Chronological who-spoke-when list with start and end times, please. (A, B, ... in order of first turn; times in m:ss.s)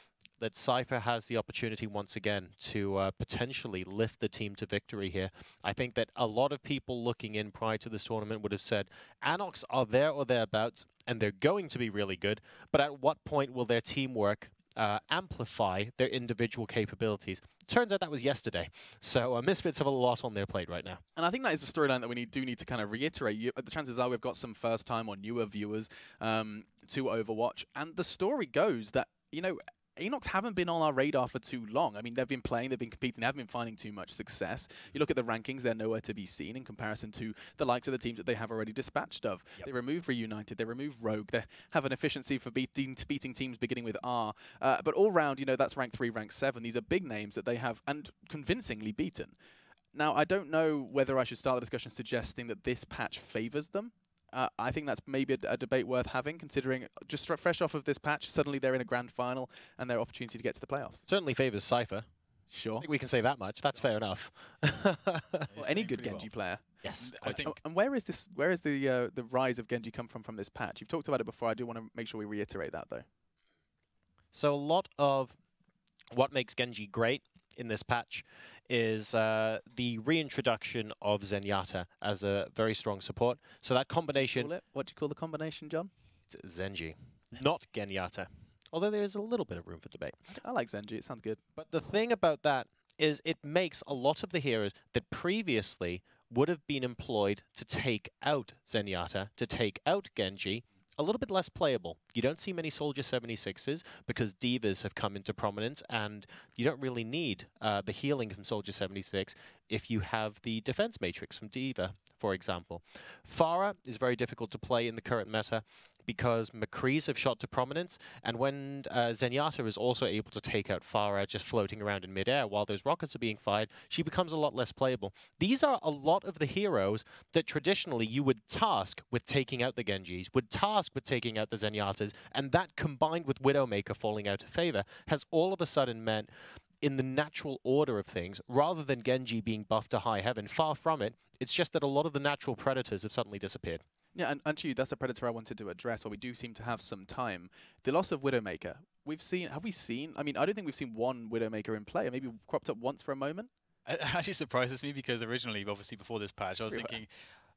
0:00.4-0:21.0 A
0:21.2-0:49.4 B
0:50.0-1:01.0 B
1:01.1-1:02.1 A
1:02.5-1:02.9 B
1:02.8-1:05.5 A
1:05.5-1:06.3 C
1:05.6-1:06.7 B
1:06.8-1:07.5 A
1:07.0-1:07.6 C
1:07.2-1:13.1 B
1:14.3-1:15.4 A
1:16.1-1:24.5 A
1:24.2-1:25.9 B
1:26.3-1:30.2 A
1:30.3-1:31.4 B
1:31.6-2:16.3 A
2:16.8-2:23.8 A
2:24.2-2:33.5 B
2:33.9-2:37.1 C
2:36.7-2:37.0 B